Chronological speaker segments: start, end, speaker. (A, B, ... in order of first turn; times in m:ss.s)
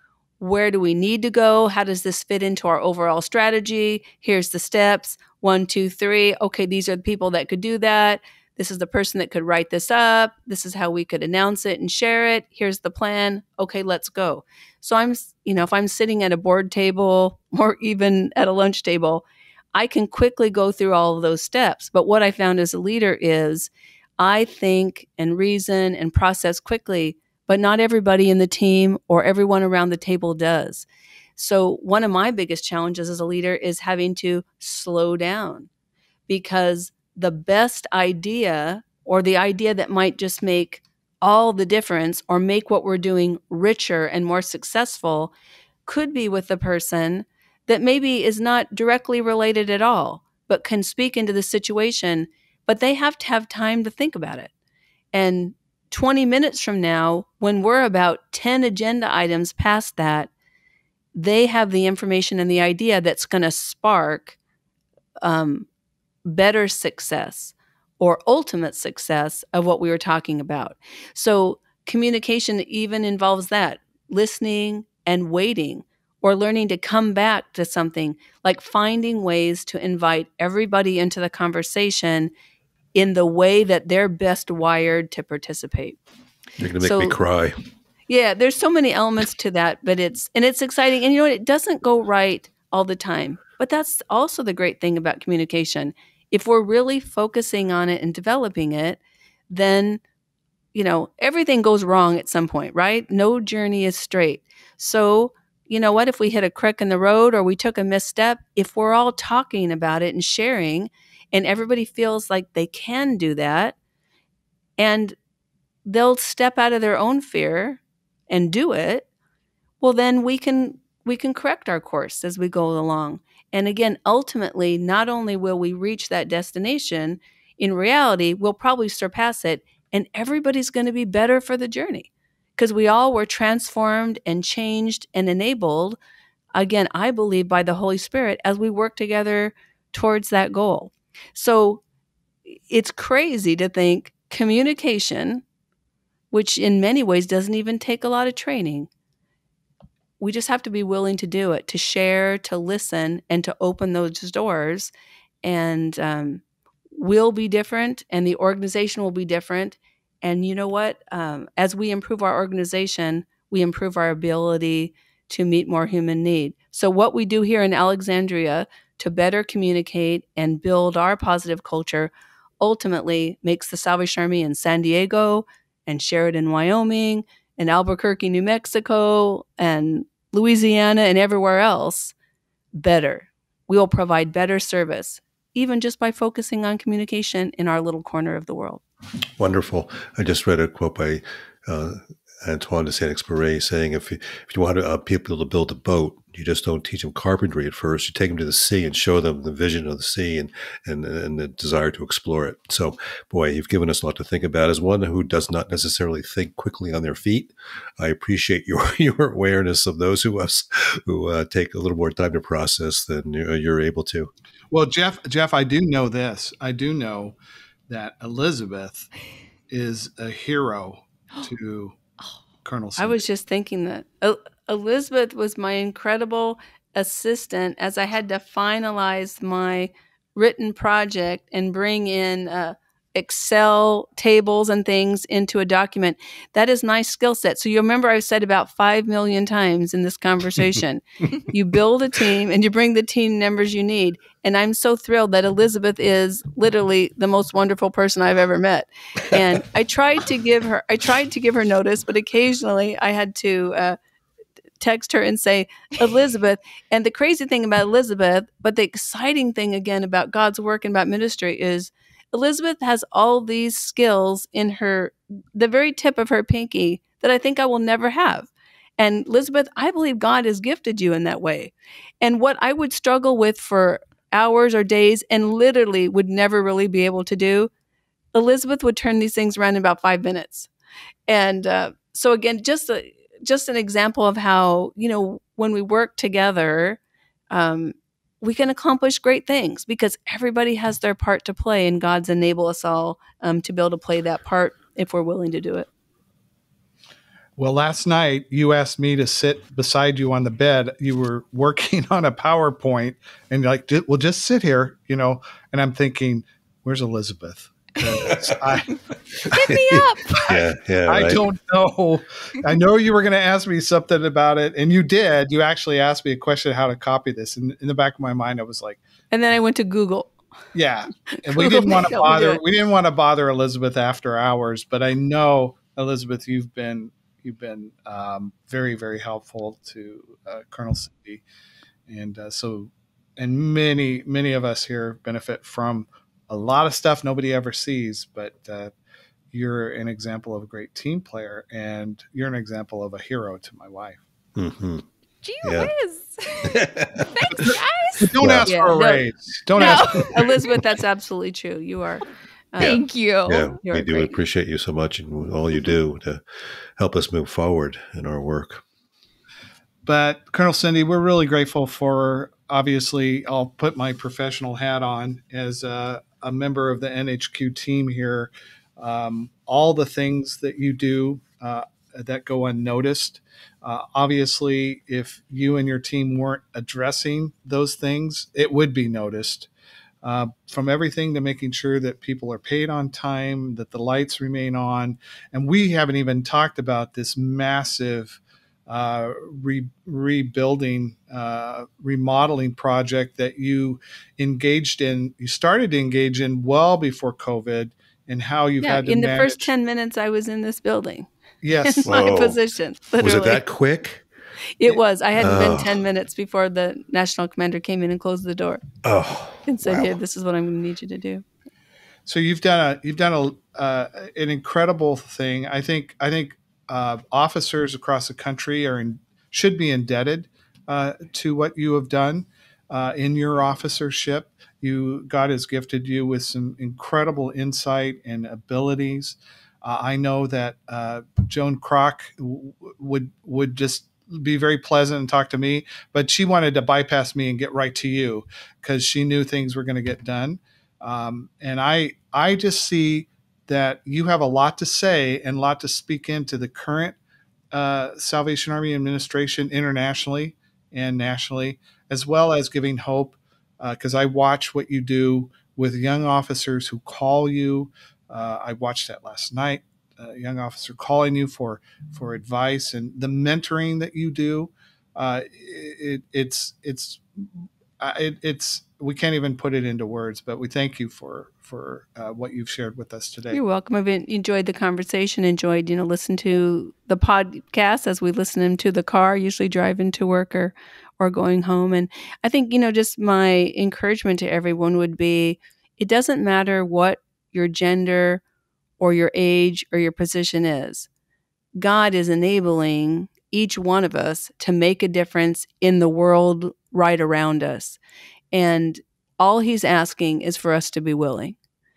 0:00.4-0:30.9 A
0:31.4-0:35.7 A
0:36.3-0:45.3 A
0:45.9-0:54.5 A
0:55.1-1:00.3 A
1:01.2-1:04.4 A
1:05.2-1:05.7 A
1:06.3-1:22.3 A
1:22.9-1:26.0 A
1:26.6-1:27.6 B
1:26.8-1:27.2 A
1:28.1-1:39.0 A
1:39.5-1:40.0 A
1:40.7-1:53.8 A
1:54.8-1:55.2 A
1:55.9-1:59.1 A
1:59.8-2:16.0 A
2:16.6-2:21.8 A
2:22.5-2:25.4 A
2:26.3-2:28.9 A
2:30.2-2:34.9 A
2:35.4-2:36.4 A
2:36.9-3:02.1 A
3:02.7-3:08.8 A
3:09.4-3:34.3 B
3:34.7-3:37.4 C
3:37.9-3:39.1 C
3:39.7-3:42.0 C
3:42.6-3:43.2 C
3:43.0-4:14.0 A
4:14.8-4:37.7 A
4:38.3-4:40.7 A
4:41.3-4:47.0 A
4:47.5-4:55.9 A
4:57.6-5:09.0 C
5:08.2-5:08.6 B
5:09.4-5:11.4 B
5:09.5-5:10.5 D
5:10.5-5:19.0 C
5:19.3-5:20.3 A
5:20.7-5:31.4 C
5:21.5-5:22.6 A
5:32.1-5:38.9 C
5:39.5-5:44.2 C
5:44.6-5:45.0 B
5:45.4-5:46.8 D
5:45.6-5:45.9 B
5:46.7-5:47.8 B
5:47.4-5:48.4 D
5:47.6-5:50.4 C
5:48.4-5:48.7 B
5:48.7-5:49.2 A
5:49.7-5:50.7 D
5:49.8-5:53.0 A
5:52.8-5:53.8 D
5:52.8-5:56.4 B
5:53.8-5:54.3 A
5:57.0-5:58.8 B
6:00.0-6:19.7 C
6:20.2-6:39.7 C
6:38.8-6:41.3 A
6:41.6-6:42.3 C
6:41.8-6:43.6 A
6:42.0-6:42.6 B
6:43.2-6:44.2 B
6:44.8-6:48.8 A
6:45.4-6:46.0 B
6:49.0-6:50.2 B
6:49.7-6:51.4 A
6:52.3-7:27.2 C
7:27.7-7:47.2 C
7:48.0-7:53.6 C
7:53.5-8:08.4 A
8:09.0-8:11.1 A
8:11.8-8:18.0 A
8:18.5-8:21.6 A